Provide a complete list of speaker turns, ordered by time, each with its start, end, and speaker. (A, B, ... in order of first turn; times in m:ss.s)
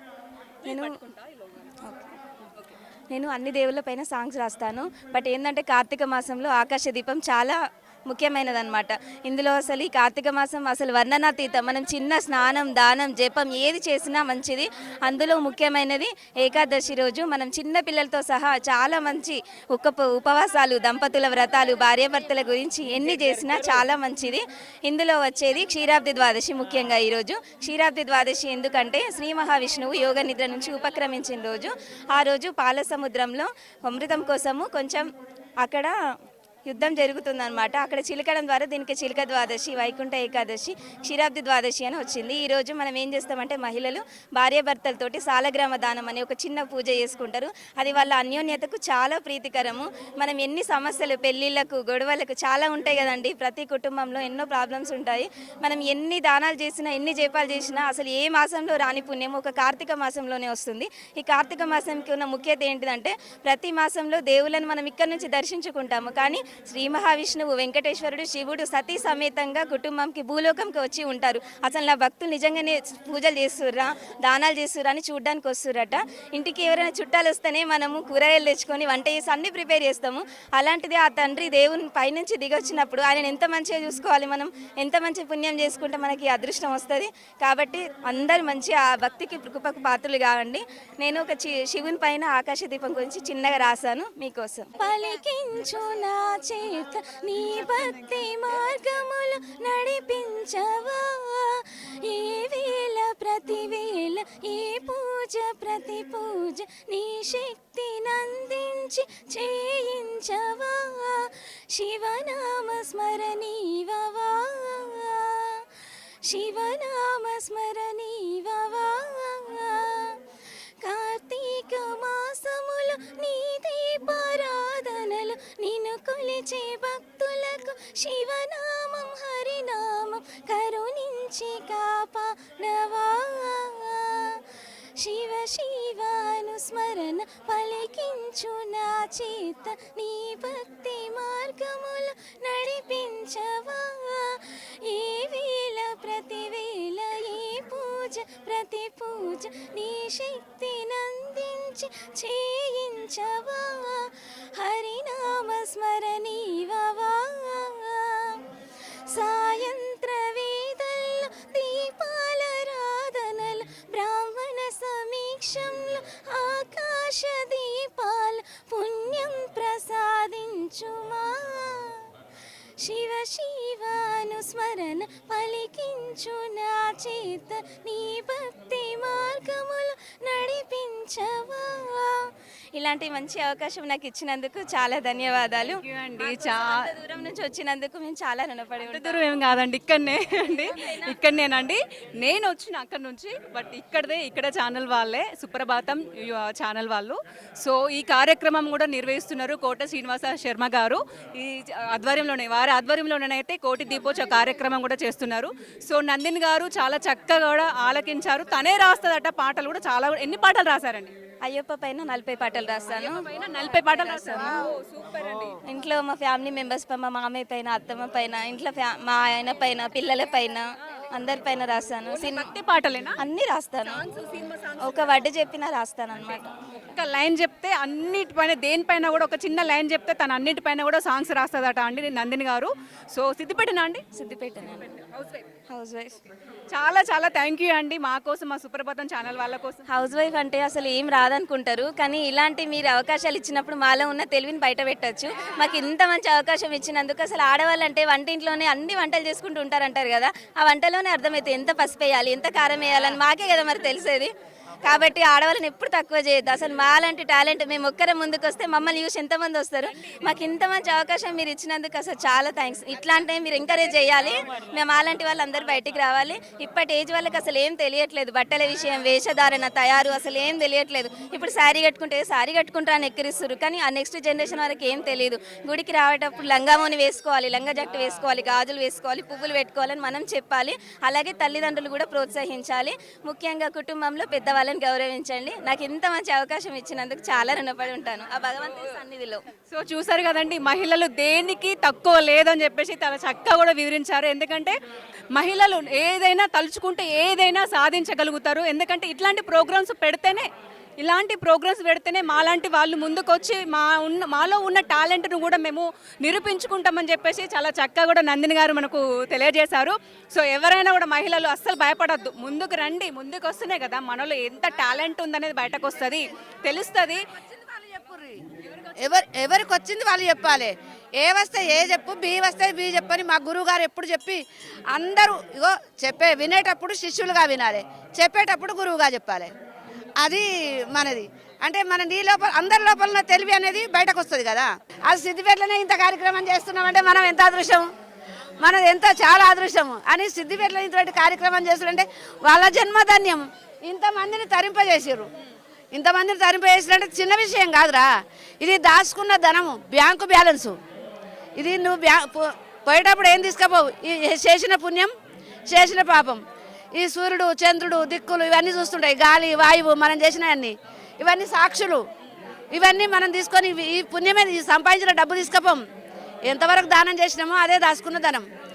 0:00.6-0:01.7 A
0:00.6-0:01.0 B
0:01.8-0:02.1 B
0:03.1-0:07.6 B
0:08.1-0:35.1 B
0:35.6-0:35.9 B
0:36.6-1:55.7 B
1:56.2-2:00.2 B
2:00.8-2:14.4 B
2:15.0-2:38.4 B
2:39.1-2:52.1 B
2:52.8-3:09.3 B
3:05.6-3:06.8 A
3:08.8-3:31.1 A
3:10.4-3:11.2 B
3:31.4-3:34.7 B
3:32.9-3:35.6 A
3:35.6-3:42.5 B
3:42.1-3:43.2 A
3:43.2-3:44.0 B
3:43.8-3:45.2 A
3:44.8-3:46.5 B
3:46.9-3:54.0 A
3:54.1-3:54.9 B
3:54.9-3:55.4 A
3:55.7-3:56.2 B
3:56.7-3:59.8 A
3:59.9-4:14.3 B
4:14.8-4:49.4 B
4:19.8-4:20.4 A
4:49.7-4:54.8 A
4:55.3-5:00.5 A
5:01.0-5:17.2 A
5:17.6-5:18.4 C
5:18.7-5:19.1 A
5:19.0-5:29.5 C
5:30.2-5:37.9 C
5:38.6-5:45.3 C
5:45.9-5:50.8 C
5:51.6-5:55.1 C
5:55.7-5:56.4 C
5:56.9-6:02.0 C
6:02.7-6:05.8 C
6:06.4-6:08.4 C